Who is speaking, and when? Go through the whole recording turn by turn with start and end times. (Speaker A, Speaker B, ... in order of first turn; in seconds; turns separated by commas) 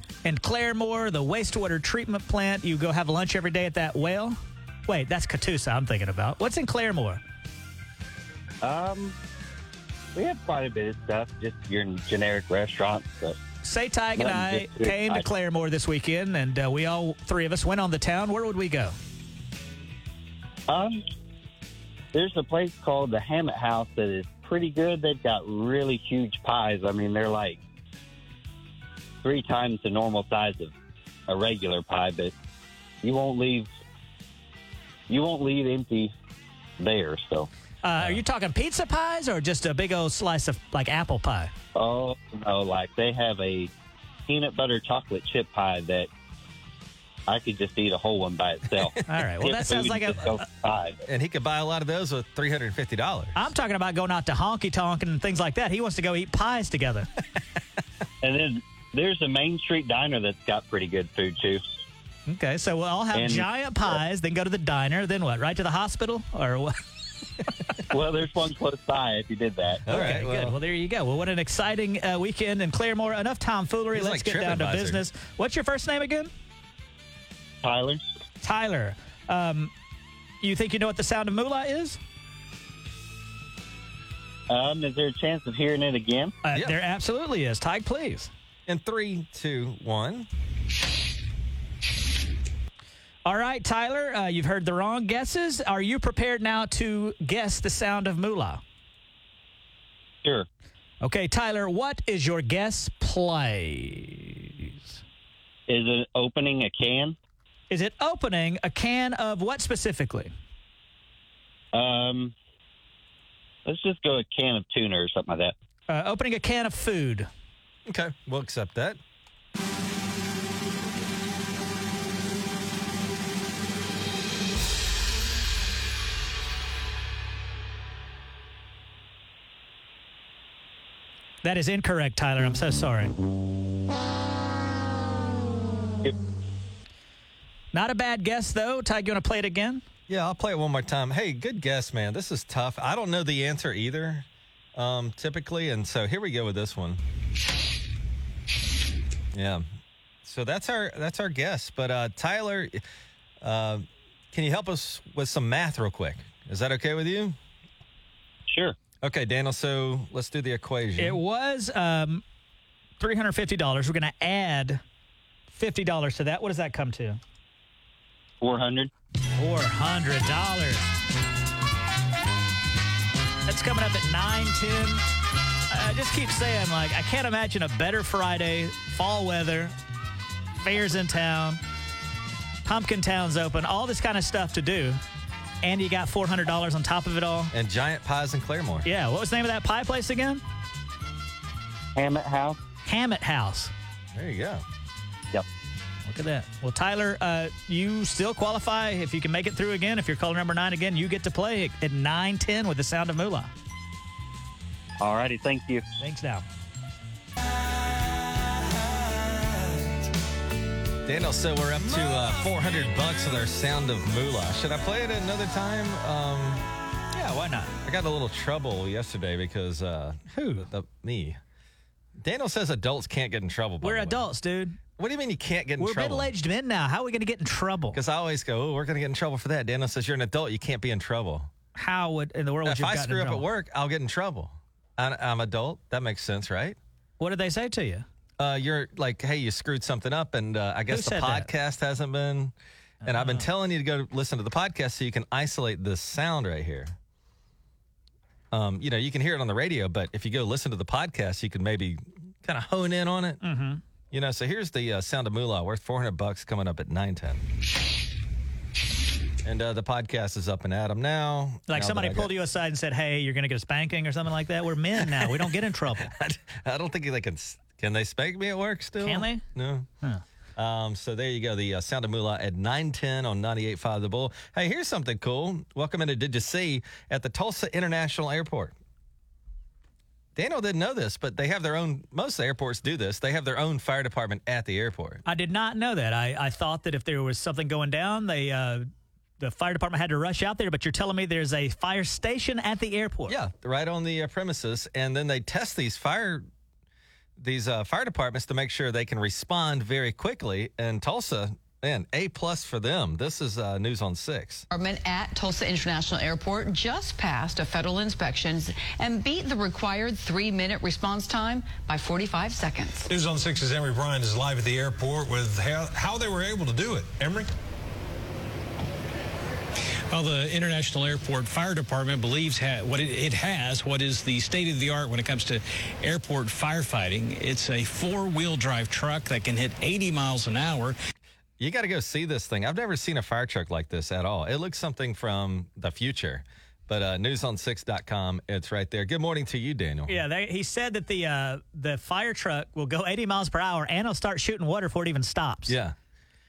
Speaker A: 0.2-7.2, Speaker B: 8.6-9.2, Speaker B: 10.1-13.4, Speaker A: 13.6-18.9, Speaker B: 14.2-15.2, Speaker B: 20.7-21.0, Speaker B: 22.1-27.6, Speaker B: 29.2-30.7, Speaker B: 31.3-32.3, Speaker B: 33.0-33.7, Speaker B: 35.1-36.1, Speaker B: 36.8-37.5, Speaker A: 37.8-41.5, Speaker B: 41.7-43.7, Speaker B: 44.3-46.1, Speaker B: 47.3-51.0, Speaker A: 49.1-50.4, Speaker C: 51.0-53.4, Speaker A: 53.3-57.1, Speaker B: 58.2-61.6, Speaker A: 62.3-66.8, Speaker B: 63.1-64.0, Speaker B: 67.9-69.9, Speaker C: 69.9-70.6, Speaker A: 69.9-76.3, Speaker C: 73.9-75.0, Speaker B: 77.6-78.0, Speaker A: 78.4-79.7, Speaker A: 80.4-82.0, Speaker B: 84.5-86.3, Speaker A: 86.4-88.3, Speaker C: 88.7-90.3, Speaker A: 93.2-98.6, Speaker A: 101.0-105.0, Speaker B: 105.7-107.2, Speaker A: 107.7-110.3, Speaker B: 111.7-112.3, Speaker B: 113.6-115.5, Speaker A: 115.9-117.3, Speaker C: 117.9-119.0, Speaker A: 131.4-133.1, Speaker A: 137.7-139.8, Speaker C: 140.1-147.0, Speaker C: 149.3-149.6, Speaker C: 150.2-152.8, Speaker C: 153.4-157.4, Speaker B: 158.5-158.8, Speaker C: 159.0-161.2, Speaker A: 161.0-162.2, Speaker A: 163.0-164.8, Speaker A: 165.5-167.2, Speaker B: 168.4-168.9, Speaker A: 169.4-170.9, Speaker A: 173.5-175.0, Speaker A: 175.7-179.7, Speaker A: 180.6-181.6, Speaker A: 182.6-185.0, Speaker A: 185.6-187.5, Speaker C: 187.5-188.9, Speaker A: 188.8-190.4, Speaker B: 191.9-192.6, Speaker A: 192.8-193.7, Speaker C: 194.1-194.6, Speaker A: 196.1-203.5, Speaker B: 205.0-205.8, Speaker A: 206.0-206.4, Speaker C: 211.1-216.7, Speaker A: 217.1-217.7, Speaker C: 217.8-221.4, Speaker A: 220.3-220.7, Speaker C: 222.2-224.3, Speaker A: 223.8-224.8, Speaker C: 225.0-226.3, Speaker A: 225.8-228.0, Speaker C: 227.9-231.5, Speaker A: 231.8-233.4, Speaker C: 232.6-236.8, Speaker A: 237.2-238.1, Speaker C: 238.4-242.5, Speaker A: 240.9-241.5, Speaker A: 243.0-243.4, Speaker C: 243.0-246.9, Speaker C: 248.5-253.4, Speaker A: 253.4-253.8, Speaker C: 254.1-257.4, Speaker C: 259.4-262.3, Speaker A: 261.7-266.1, Speaker C: 265.0-265.5, Speaker C: 266.0-269.9, Speaker A: 269.0-269.4, Speaker C: 270.6-278.7, Speaker C: 280.4-285.2, Speaker A: 285.2-288.9, Speaker A: 289.4-293.4, Speaker C: 293.3-296.5, Speaker C: 297.4-304.6, Speaker D: 304.7-313.1, Speaker E: 313.1-317.5, Speaker F: 320.1-330.9, Speaker C: 331.6-340.2, Speaker A: 340.1-345.8, Speaker C: 345.7-345.9